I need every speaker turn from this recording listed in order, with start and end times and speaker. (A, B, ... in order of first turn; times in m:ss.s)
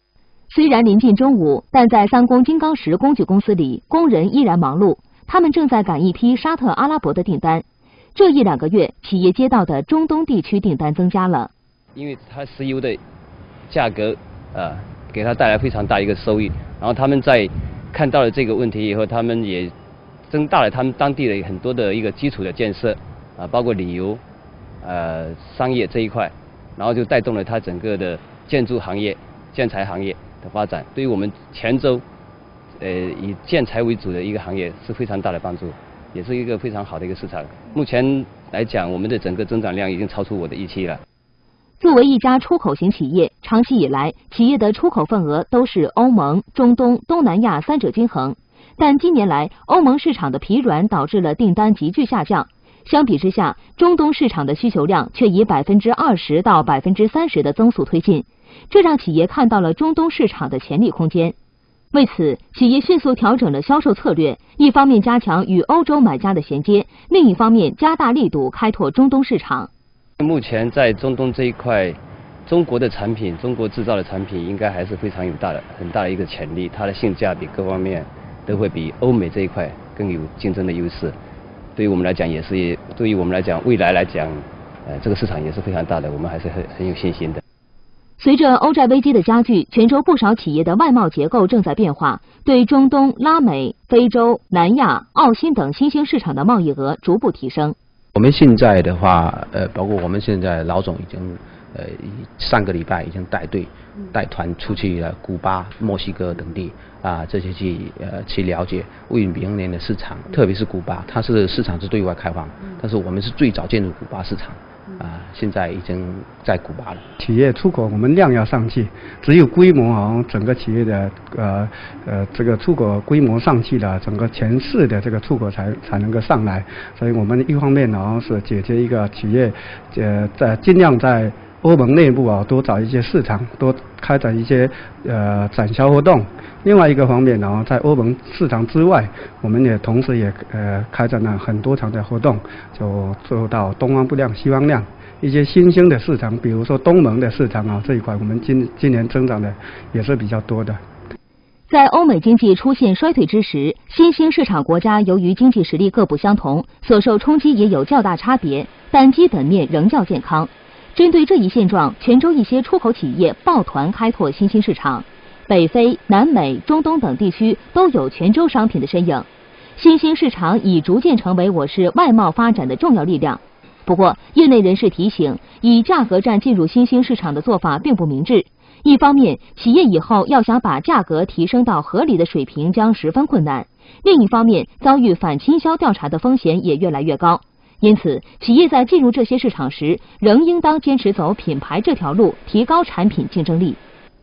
0:00.5-0:11.5 A
0:12.0-0:13.0 B
0:13.7-0:19.7 B
0:20.3-0:24.2 B
0:24.8-0:32.0 B
0:32.8-0:41.0 B
0:41.8-1:01.4 A
1:01.9-1:09.7 A
1:10.2-1:21.2 B
1:21.8-1:27.4 B
1:28.2-1:37.8 A
1:38.2-1:57.0 C
1:57.2-2:30.8 D
2:31.7-3:13.8 A